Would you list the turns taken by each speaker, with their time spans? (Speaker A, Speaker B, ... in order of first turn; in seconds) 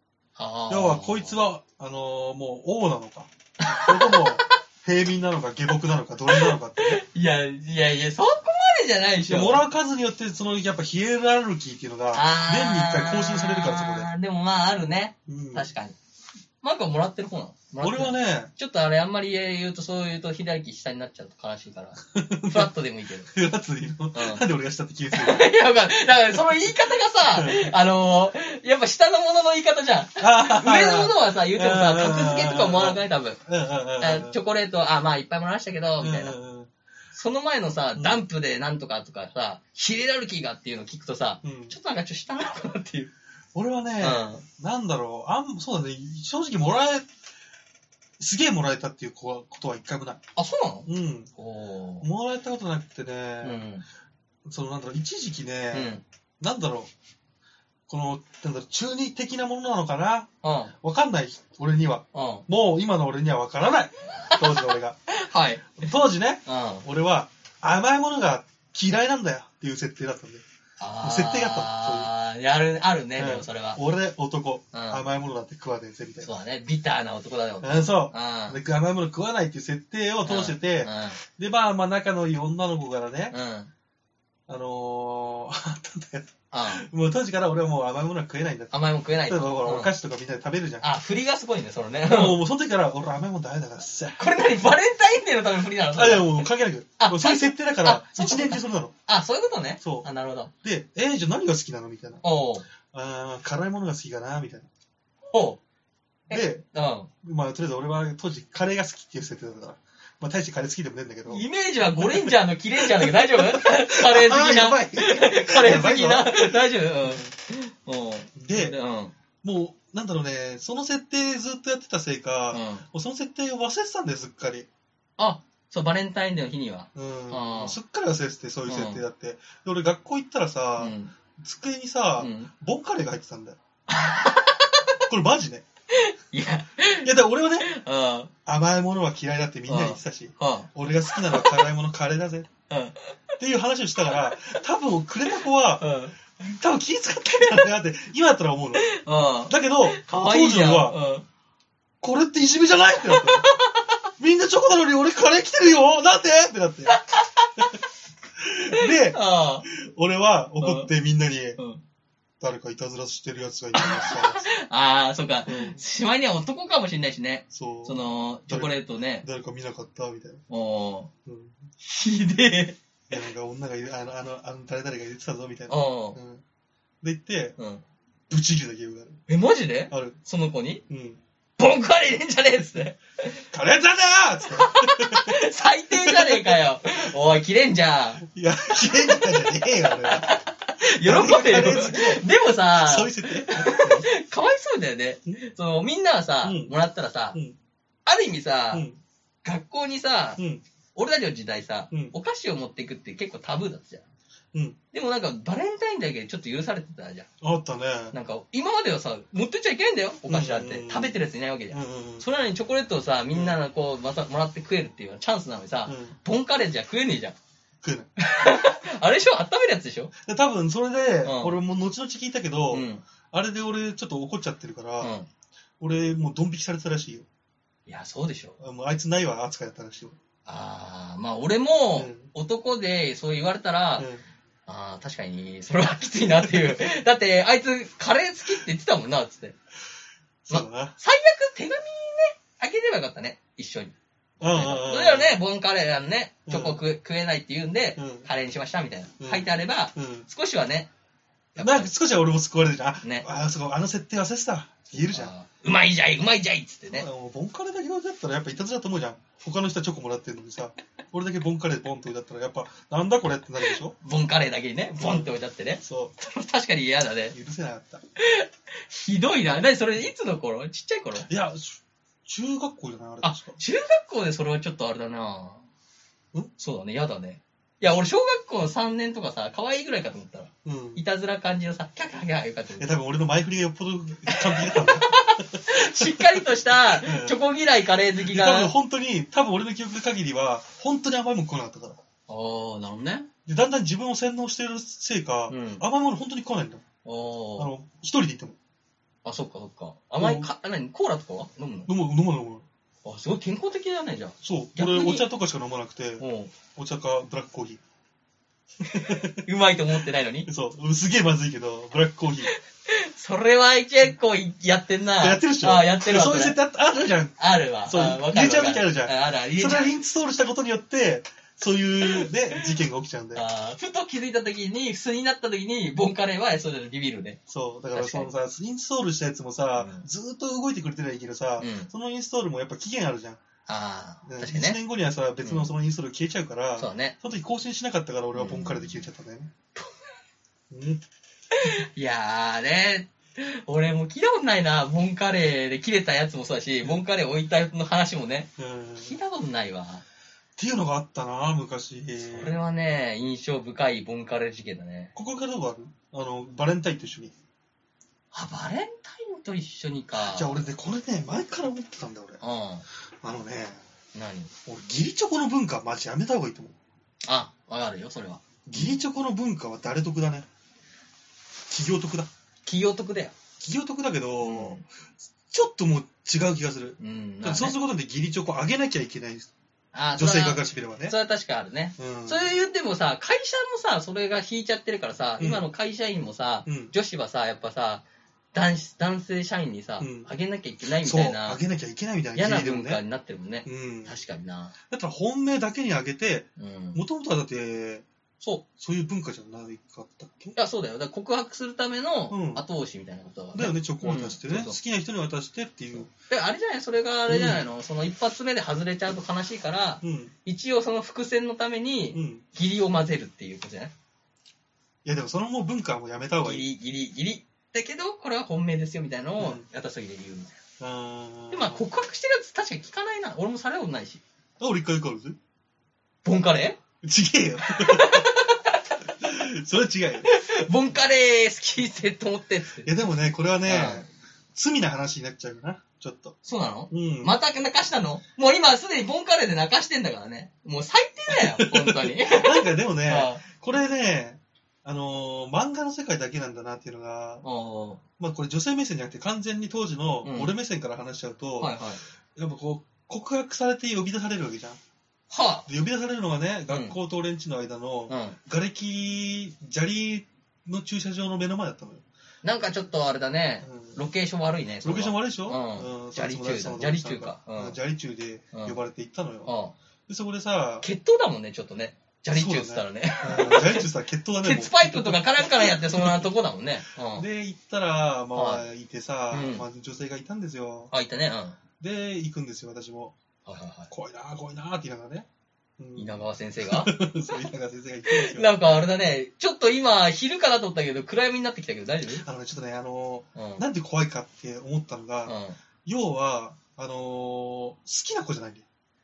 Speaker A: 0.4-1.4, 3.6-4.5, 6.3-9.6, 12.1-16.0, 16.6-23.3, 24.1-24.4, 25.1-33.4, 34.0-36.4, 37.1-43.1, 44.0-44.4, 50.4-52.1, 53.4-53.8, 55.7-56.0, 60.4-60.7, 62.1-62.5, 64.2-65.8, 66.5-66.8, 70.8-73.8, 74.7-75.0, 76.2-78.6, 80.2-81.2, 83.3-83.7, 86.5-86.9, 88.7-89.9, 90.8-92.4, 94.2-96.5, 97.0-100.5, 102.2-102.7, 105.3-105.6, 106.3-107.1, 111.3-119.1, 122.5-122.8, 125.2-127.8, 128.7-129.0, 130.8-131.1, 132.2-132.5, 133.9-135.0, 135.9-138.3, 139.7-141.6, 142.7-143.2, 145.8-146.2, 148.8-151.2, 153.0-154.0, 156.9-157.7, 158.7-159.7, 160.6-160.9, 161.6-161.8, 163.8-169.3, 170.5-171.1, 171.8-172.8, 175.7-176.2, 177.6-177.8, 179.3-180.8, 181.6-183.4, 184.5-188.2, 188.8-197.4, 198.0-198.8, 199.4-200.4, 200.9-204.0, 204.9-207.3, 208.1-217.3, 218.2-220.1, 221.2-221.6, 222.7-223.0, 225.0-225.3, 227.9-228.6, 230.5-234.1, 234.7-239.6, 240.5-250.9, 251.5-251.9, 254.9-257.1, 263.7-267.4, 268.2-271.3, 273.2-275.6, 276.6-282.9, 284.3-288.7, 292.3-293.3, 295.5-295.9, 297.0-297.7, 299.2-301.9, 303.0-305.2, 306.2-306.5, 308.9-310.5, 312.9-316.6, 317.4-319.9, 322.0-322.6, 323.4-327.4, 327.9-328.3, 329.8-330.1, 331.6-331.9, 333.7-334.8, 335.4-335.7, 336.8-337.1, 338.3-339.1, 341.6-350.0, 352.2-355.1, 358.3-360.6, 362.4-362.9, 364.1-364.5, 367.2-369.0, 372.6-373.3, 374.4-374.8, 377.0-377.8, 379.9-391.6, 392.4-394.7, 396.6-397.0, 400.6-404.8, 406.3-413.9, 416.4-420.6, 421.5-424.2, 426.2-426.8, 427.6-428.8, 430.2-432.9, 433.6-434.0, 436.4-443.4, 447.4-448.0, 450.2-450.5, 451.6-452.0, 455.3-455.7, 456.7-456.9, 458.1-458.4, 462.4-467.8, 469.4-469.7, 470.8-473.9, 474.4-477.2, 478.4-478.6, 479.3-479.6, 480.9-481.6, 483.4-483.9, 485.9-487.4, 488.1-492.2, 493.4-493.6, 495.2-495.6
Speaker B: 0.7-7.0, 9.3-14.1, 15.3-15.7, 17.8-18.5, 22.1-22.7, 23.3-25.5, 27.3-27.7, 30.2-34.4, 36.0-36.7, 38.0-38.2, 41.4-41.8, 43.5-47.1, 48.2-50.2, 50.9-51.3, 52.0-53.7, 54.5-56.9, 57.9-65.0, 65.8-70.4, 71.0-72.1, 73.2-76.3, 77.6-83.3, 84.5-90.8, 92.1-94.2, 95.9-99.0, 99.8-100.1, 100.6-102.2, 102.8-104.7, 106.3-106.7, 107.2-117.3, 118.3-118.8, 119.4-124.7, 127.0-133.6, 135.1-135.7, 137.0-137.7, 138.5-142.5, 143.4-145.8, 146.4-151.0, 152.0-153.5, 154.2-157.0, 158.4-161.6, 162.4-164.5, 165.5-165.8, 167.5-170.4, 171.3-171.6, 173.1-176.4, 177.0-177.6, 178.3-179.2, 179.9-180.2, 180.9-181.2, 183.5-185.4, 185.9-186.6, 188.2-194.1, 196.4-196.8, 198.7-199.0, 200.4-200.6, 204.5-204.8, 207.4-208.2, 210.3-211.2, 211.7-212.3, 215.9-216.2, 217.8-218.1, 220.2-225.2, 225.8-227.3, 228.6-230.2, 231.9-232.3, 234.0-234.2, 236.3-236.9, 240.5-241.0, 244.4-245.4, 246.5-246.8, 248.0-248.3, 249.2-250.3, 251.6-255.3, 256.9-264.0, 265.0-266.1, 267.3-268.0, 271.2-273.6, 280.6-281.0, 282.8-287.4, 288.2-292.0, 293.5-296.8, 297.6-298.6, 300.2-300.5, 301.9-302.6, 304.4-307.8, 308.9-309.4, 310.4-312.5, 315.2-323.4, 327.5-333.4, 334.2-339.5, 340.7-341.0, 348.6-349.1, 350.6-352.5, 355.1-357.3, 360.1-362.4, 363.2-363.8, 364.6-366.7, 368.6-370.4, 371.7-372.3, 373.6-379.5, 380.1-381.1, 382.0-382.5, 385.4-385.7, 386.6-386.9, 390.0-390.3, 391.0-393.0, 393.6-394.1, 394.9-398.1, 398.8-400.6, 402.3-402.6, 403.5-406.1, 407.3-407.6, 410.0-410.3, 412.1-412.4, 415.0-416.6, 419.4-419.6, 420.8-421.8, 424.6-425.4, 427.0-428.3, 429.2-430.4, 432.8-436.4, 436.9-437.4, 441.3-447.4, 448.2-451.8, 452.4-454.8, 455.7-462.0, 463.6-464.0, 464.8-469.5, 470.1-470.9, 472.3-476.3, 477.1-480.9, 481.8-483.1, 483.9-485.3, 485.8-488.5, 492.1-498.6